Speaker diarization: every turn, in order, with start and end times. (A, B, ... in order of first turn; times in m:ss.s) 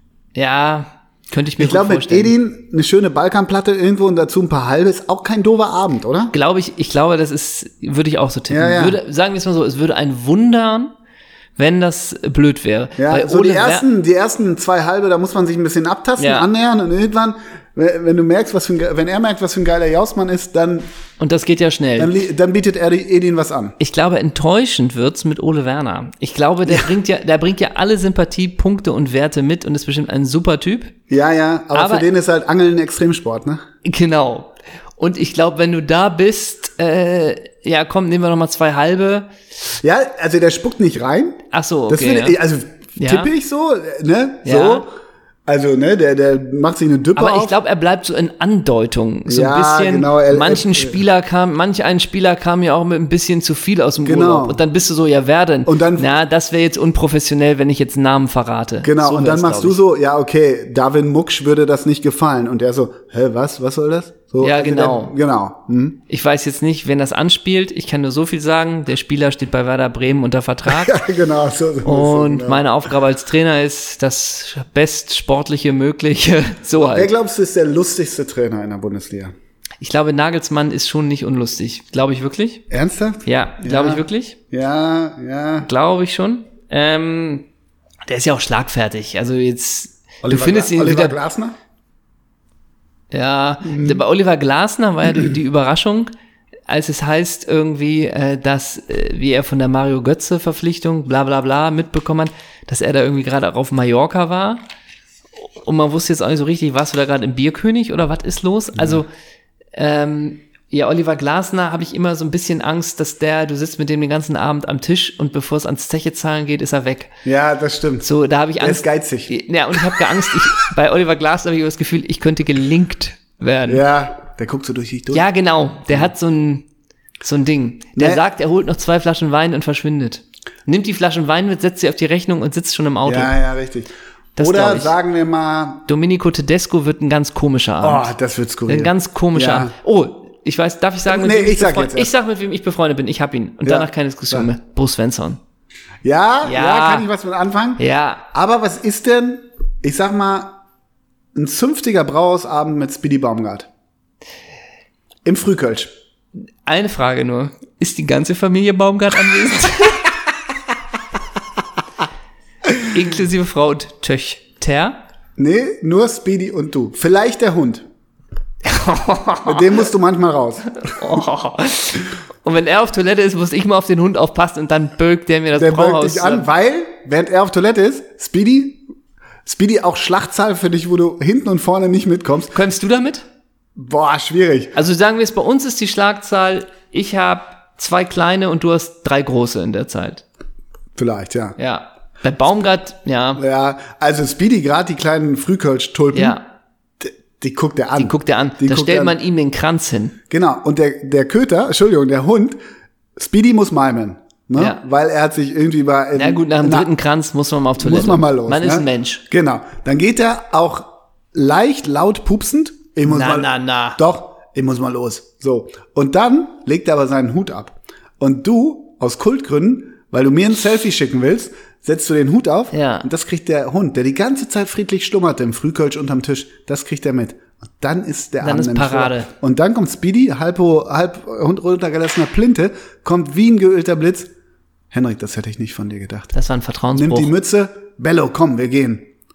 0:00.3-0:02.3 A
0:01.6-0:06.3 B
0:06.3-0:10.9 A
0:08.5-0:09.0 B
0:11.6-0:13.8 A
0:13.0-0:20.9 B
0:16.2-0:16.5 A
0:21.2-0:22.1 A
0:22.0-0:23.8 B
0:23.8-0:30.9 A
0:31.1-0:33.6 B
0:31.7-0:32.1 A
0:33.8-0:39.3 A
0:39.8-0:44.9 B
0:41.5-0:42.4 A
0:43.0-0:43.3 A
0:44.4-0:44.8 A
0:45.5-0:47.6 B
0:47.2-0:59.8 A
0:49.3-0:51.0 B
0:54.0-0:54.6 B
0:55.6-0:56.1 B
0:58.8-1:06.0 B
1:04.4-1:05.1 A
1:06.1-1:11.0 A
1:10.7-1:12.6 B
1:11.8-1:17.1 A
1:16.8-1:19.3 B
1:19.8-1:22.6 A
1:22.7-1:25.7 B
1:23.2-1:24.4 A
1:25.6-1:27.5 A
1:28.1-1:31.2 A
1:30.2-1:31.6 B
1:33.1-1:36.1 A
1:33.6-1:34.0 B
1:36.7-1:44.6 A
1:45.6-1:49.1 A
1:49.7-1:57.1 A
1:57.2-1:58.1 B
1:58.0-2:03.8 A
1:58.6-1:59.3 B
2:03.7-2:05.2 B
2:05.1-2:06.6 A
2:07.2-2:13.3 A
2:08.0-2:08.2 B
2:13.0-2:15.8 B
2:14.4-2:14.9 A
2:15.9-2:18.1 A
2:17.8-2:19.7 B
2:18.7-2:25.4 A
2:21.1-2:22.1 B
2:23.6-2:24.5 B
2:26.0-2:30.6 B
2:26.4-2:27.1 A
2:27.8-2:28.2 A
2:31.3-2:33.7 B
2:35.2-2:35.9 B
2:36.6-2:40.0 A
2:42.8-2:45.0 A
2:45.4-2:47.8 B
2:48.6-2:49.7 A
2:49.4-2:50.7 B
2:50.8-2:56.5 A
2:55.6-2:58.8 B
2:59.4-3:02.5 B
3:02.5-3:03.2 A
3:03.8-3:04.8 B
3:04.7-3:10.2 A
3:11.0-3:11.6 B
3:11.6-3:13.4 A
3:13.4-3:16.4 B
3:16.1-3:16.4 A
3:17.0-3:19.2 B
3:18.0-3:20.2 A
3:20.3-3:22.6 B
3:23.2-3:26.9 B
3:24.6-3:24.8 A
3:26.1-3:29.2 A
3:27.8-3:54.3 B
3:33.0-3:34.0 A
3:42.7-3:43.1 A
3:48.4-3:49.3 A
3:54.9-3:56.3 B
3:56.3-3:57.3 A
3:56.9-3:59.1 B